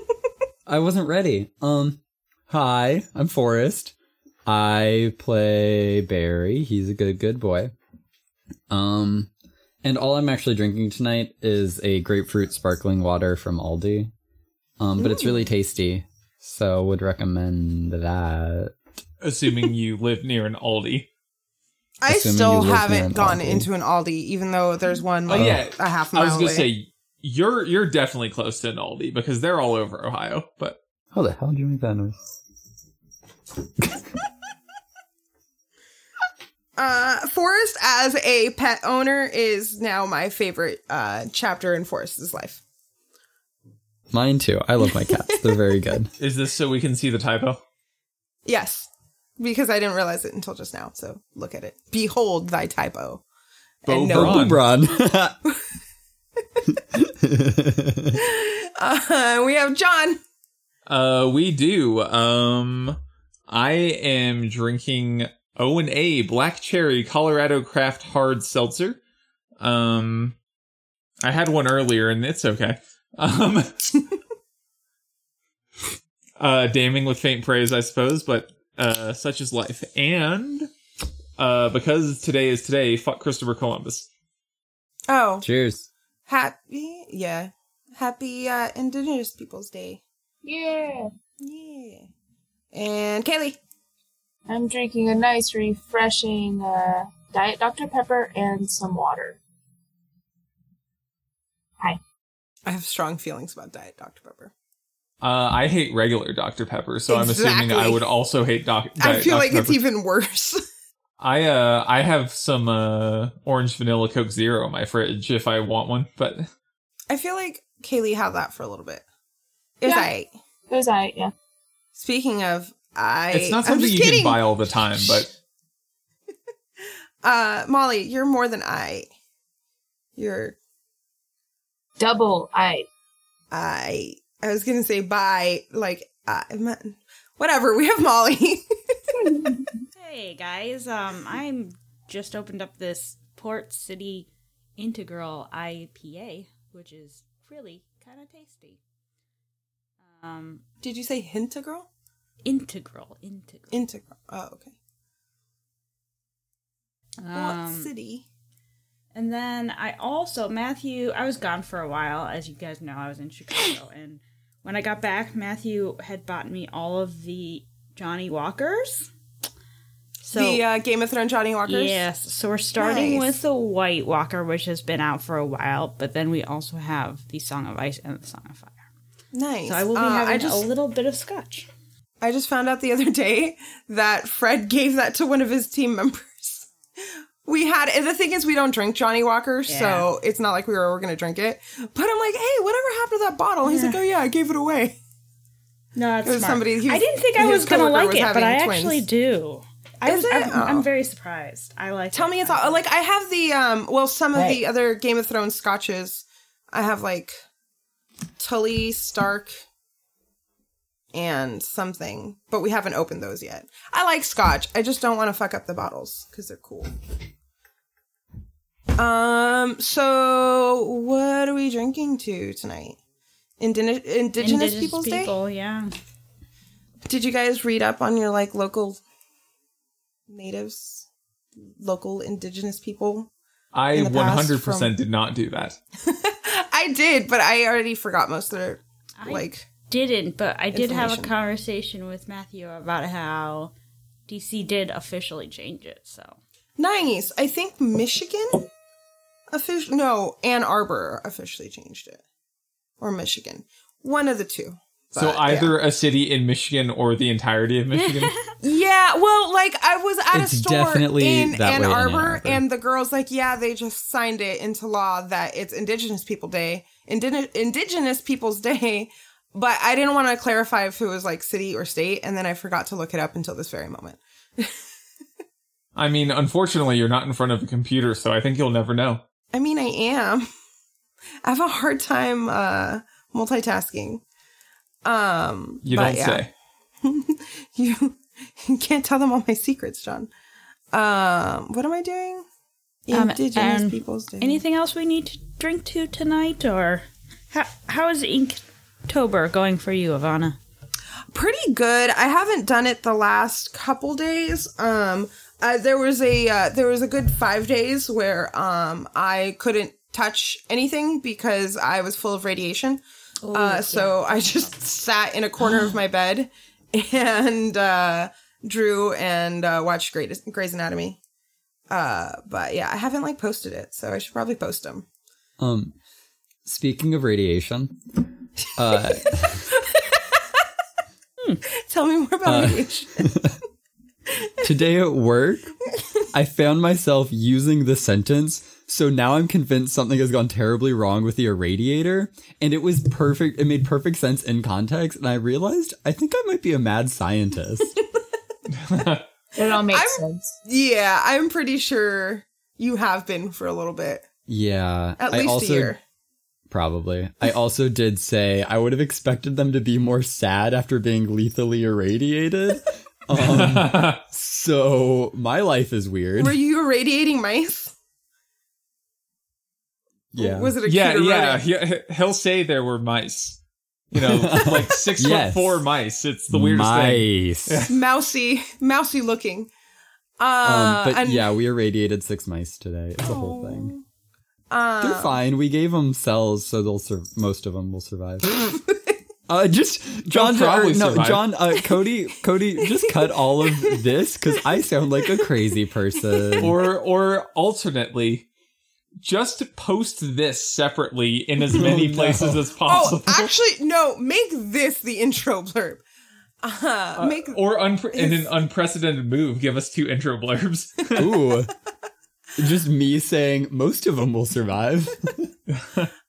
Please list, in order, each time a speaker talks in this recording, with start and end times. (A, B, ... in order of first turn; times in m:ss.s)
0:00.7-0:03.9 A
0:04.4-0:07.7 A
0:08.7-0:09.3 A
0:09.8-0:14.1 A
0:14.8-0:18.8 A
0:15.0-0:15.5 B
0:19.2-0:21.1 C
0:22.0-0:26.7 B
0:22.1-0:23.7 A
0:25.3-0:30.8 C
0:25.3-0:25.6 A
0:31.1-0:32.2 A
0:36.8-0:42.6 B
0:44.1-0:46.1 A
0:44.9-0:45.6 B
0:46.2-0:47.6 C
0:48.4-0:53.2 B
0:53.8-0:54.5 B
0:53.8-0:54.6 C
0:54.1-0:55.4 A
0:56.9-0:58.2 A
0:58.1-1:00.2 B
1:00.9-1:03.0 C
1:03.5-1:09.0 C
1:09.6-1:10.3 C
1:11.2-1:14.0 C
1:16.4-1:20.7 C
1:21.4-1:24.1 C
1:25.1-1:25.4 B
1:25.4-1:25.9 A
1:26.3-1:30.0 B
1:30.4-1:31.1 D
1:31.4-1:32.1 B
1:32.7-1:33.6 B
1:34.5-1:39.4 D
1:42.6-1:44.5 B
1:45.2-1:49.8 C
1:47.1-1:48.0 B
1:49.0-1:50.6 B
1:51.2-1:56.5 C
1:57.1-1:59.0 B
1:59.8-2:00.3 B
1:59.8-2:00.1 D
2:00.7-2:01.3 D
2:01.9-2:05.2 B
2:03.3-2:05.3 C
2:06.8-2:09.1 B
2:10.2-2:10.6 B
2:12.0-2:12.8 D
2:13.5-2:19.4 B
2:19.9-2:28.8 E
2:30.1-2:30.6 E
2:30.8-2:31.9 B
2:32.4-2:33.7 E
2:33.7-2:34.7 B
2:37.2-2:37.9 E
2:37.3-2:38.2 B
2:39.1-2:49.1 E
2:50.2-2:50.6 E
2:50.3-2:52.0 B
2:51.7-2:58.8 E
2:52.8-2:53.4 B
2:59.3-3:00.7 B
2:59.6-3:01.7 E
3:02.2-3:15.0 B
3:09.7-3:10.1 E
3:13.6-3:14.0 E
3:15.9-3:22.8 E
3:16.2-3:19.0 B
3:20.0-3:20.9 B
3:22.1-3:27.3 B
3:24.3-3:24.6 E
3:28.4-3:29.6 B
3:31.1-3:36.9 B
3:38.9-3:43.0 B
3:43.6-3:45.3 B
3:44.4-3:45.9 E
3:47.1-3:49.0 B
3:50.3-3:51.0 B
3:51.6-3:53.3 B
3:53.7-3:55.8 C
3:53.9-3:54.9 B
3:56.0-3:59.7 B
3:59.2-4:03.7 E
4:00.7-4:01.3 B
4:04.3-4:06.4 E
4:06.8-4:08.7 B
4:09.5-4:12.2 B
4:13.0-4:15.7 B
4:15.2-4:18.3 C
4:18.0-4:18.5 E
4:18.6-4:34.8 B
4:20.3-4:22.6 A
4:36.0-4:39.2 C
4:39.5-4:40.5 B
4:41.4-4:44.2 B
4:45.0-4:46.4 B
4:45.8-4:46.5 C
4:47.0-4:50.3 B
4:50.9-4:52.4 B
4:53.1-4:54.6 B
4:53.1-5:00.6 E
5:01.3-5:13.0 B
5:13.4-5:14.6 E
5:13.5-5:21.2 B
5:21.9-5:25.0 B
5:25.6-5:25.9 A
5:26.6-5:28.0 A
5:28.7-5:29.7 A
5:28.8-5:30.6 B
5:31.7-5:33.4 B
5:32.4-5:33.6 A
5:34.4-5:34.6 B
5:34.6-5:35.7 A
5:36.3-5:48.0 A
5:48.7-5:49.2 C
5:49.5-5:50.5 D
5:49.8-5:54.2 B
5:54.5-5:56.0 A
5:55.2-5:56.0 B
5:56.7-6:06.6 A
6:03.3-6:04.2 C
6:06.4-6:07.9 B
6:10.3-6:10.7 A
6:10.4-6:11.6 B
6:10.8-6:13.6 C
6:14.1-6:17.9 C
6:14.2-6:15.8 A
6:16.5-6:17.9 A
6:17.9-6:19.7 B
6:20.4-6:21.5 B
6:20.6-6:23.9 A
6:23.2-6:24.0 B
6:24.7-6:25.4 B
6:25.0-6:28.6 A
6:28.6-6:29.1 B
6:29.5-6:36.7 A
6:30.3-6:31.4 C
6:32.8-6:34.0 B
6:36.3-6:36.6 B
6:36.6-6:38.5 C
6:39.2-6:43.5 C
6:41.7-6:42.6 A
6:42.8-6:46.0 B
6:46.6-6:48.5 B
6:47.2-6:51.3 C
6:51.2-6:51.7 A
6:52.6-6:55.4 A
6:55.7-6:56.1 C